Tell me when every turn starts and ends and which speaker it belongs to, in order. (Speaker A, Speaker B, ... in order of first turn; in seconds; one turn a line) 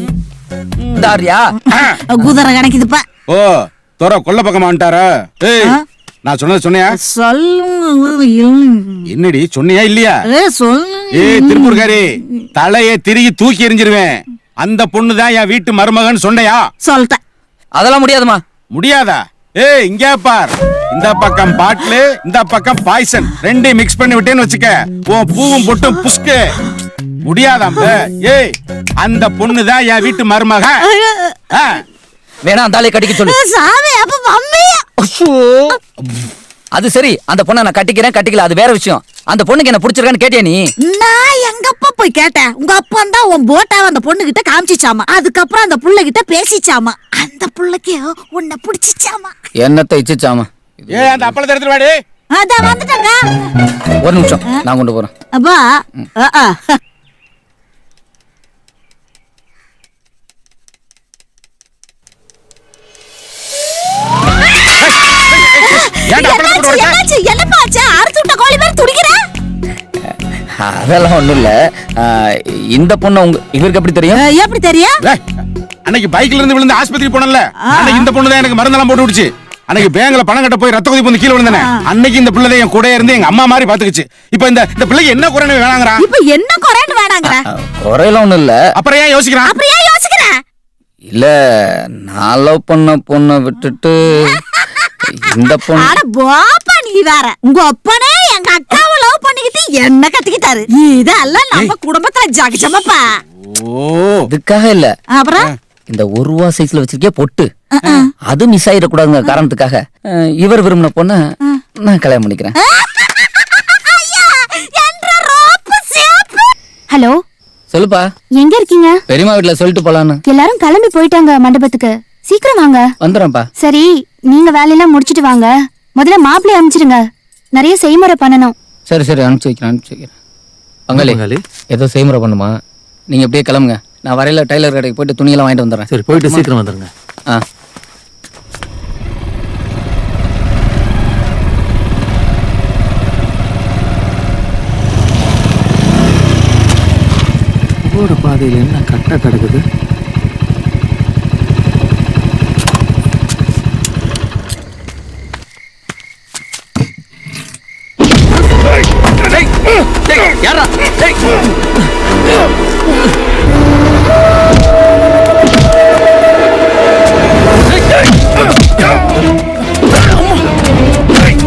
Speaker A: 0.9-1.6
Speaker B: 1.7-3.0
Speaker C: 3.3-5.7
Speaker C: 6.3-7.0
Speaker B: 6.9-9.1
Speaker C: 9.1-10.2
Speaker B: 10.2-11.9
Speaker C: 11.1-12.0
Speaker C: 12.6-16.6
Speaker B: 16.8-17.2
Speaker A: 17.8-18.4
Speaker C: 18.7-26.4
Speaker C: 27.3-30.8
Speaker B: 30.8-31.4
Speaker A: 32.4-33.4
Speaker B: 33.0-34.9
Speaker A: 35.0-35.8
Speaker A: 36.8-40.6
Speaker B: 40.8-49.3
Speaker A: 49.6-51.3
Speaker C: 50.9-51.9
Speaker B: 52.3-53.3
Speaker A: 54.0-55.1
Speaker B: 55.3-56.8
Speaker B: 65.5-69.2
Speaker C: 66.1-67.0
Speaker A: 70.6-74.2
Speaker B: 74.2-75.0
Speaker C: 75.9-86.0
Speaker B: 77.6-78.1
Speaker B: 81.5-81.8
Speaker B: 86.0-87.4
Speaker A: 87.4-88.6
Speaker C: 88.8-89.5
Speaker B: 89.4-90.4
Speaker A: 91.1-94.4
Speaker B: 94.5-94.9
Speaker A: 95.1-96.0
Speaker B: 95.7-103.2
Speaker C: 103.5-104.2
Speaker A: 104.3-104.9
Speaker B: 105.1-105.5
Speaker A: 105.9-107.5
Speaker B: 107.8-108.1
Speaker A: 108.3-111.2
Speaker A: 111.9-112.5
Speaker B: 112.6-116.5
Speaker D: 116.9-117.2
Speaker A: 117.7-118.1
Speaker D: 118.4-119.0
Speaker A: 119.1-120.2
Speaker D: 120.3-122.9
Speaker A: 123.0-123.5
Speaker D: 123.6-127.0
Speaker D: 127.6-128.5
Speaker A: 128.9-130.1
Speaker A: 130.9-131.2
Speaker E: 130.9-131.4
Speaker A: 131.7-132.5
Speaker A: 133.1-136.5
Speaker E: 135.9-136.9
Speaker E: 147.8-149.6
Speaker E: 160.2-160.9